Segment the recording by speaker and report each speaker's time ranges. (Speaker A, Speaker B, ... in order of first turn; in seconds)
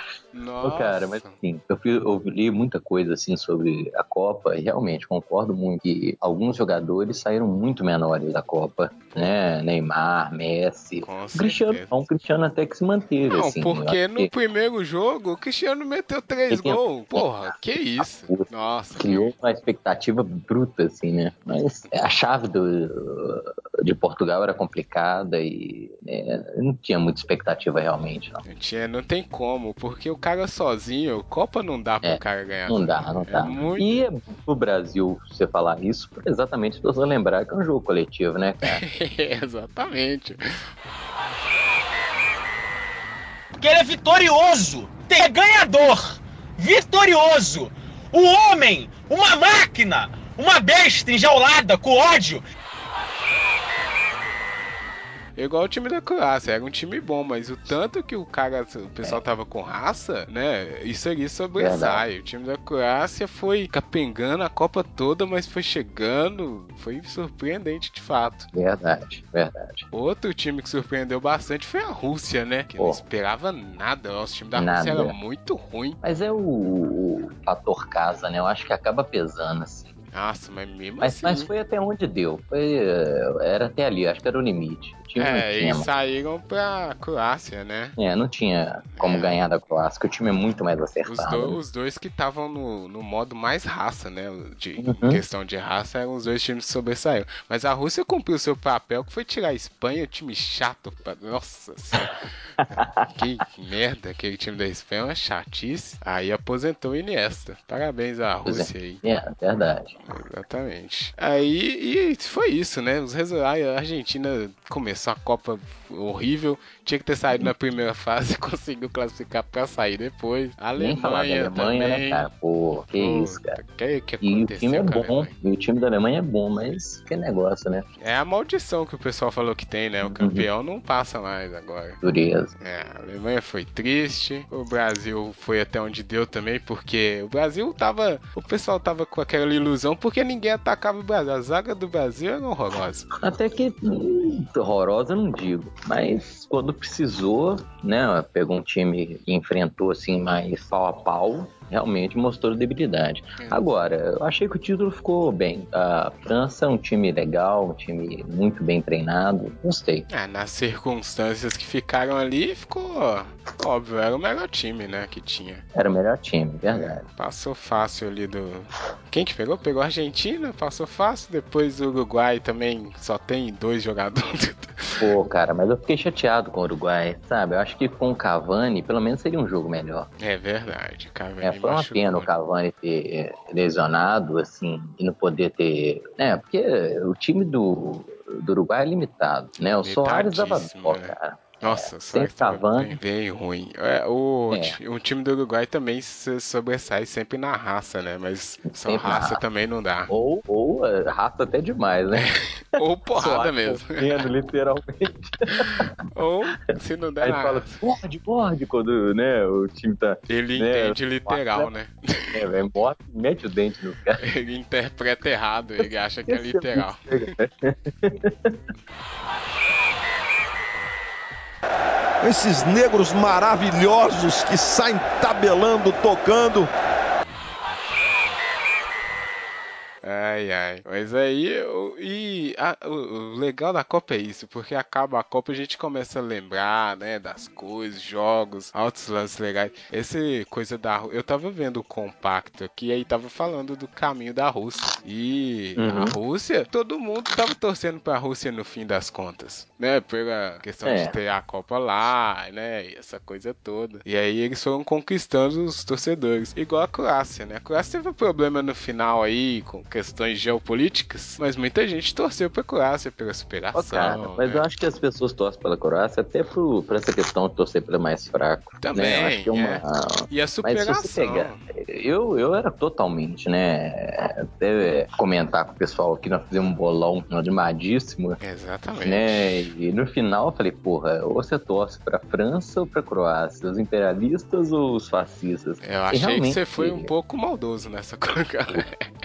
Speaker A: 0.3-1.4, 11.0-12.0, 13.3-19.3, 28.4-34.1, 38.6-40.4, 55.4-68.5, 69.9-76.0, 80.1-81.5, 85.2-88.0, 89.0-89.4, 91.0-109.0, 110.0-122.3, 122.9-125.3, 128.0-132.0, 132.6-143.1, 153.4-153.7, 160.1-165.6, 166.7-175.0, 180.2-182.3, 189.8-200.1, 202.2-204.2, 205.5-207.8, 210.3-212.4, 214.2-217.3, 230.0-264.6, 268.8-271.6, 278.4-279.7, 285.8-289.1
Speaker B: 0.6-14.3, 16.5-28.4, 32.0-38.8, 61.6-62.0, 68.5-69.9, 74.5-75.2, 76.0-79.9, 81.0-85.9, 88.0-91.6, 94.8-95.2, 102.7-103.1, 108.5-110.0, 120.8-123.6, 124.2-127.9, 130.0-130.5, 132.0-132.5, 143.2-160.1, 165.8-167.1, 175.0-180.1, 181.4-193.0, 194.5-194.8, 198.8-199.4, 200.1-202.3, 203.2-205.9, 207.2-211.7, 212.3-214.2, 216.3-218.6, 245.8-246.2, 250.8-251.2, 263.7-278.4, 279.0-287.1
Speaker C: 43.6-52.4
Speaker D: 222.2-226.7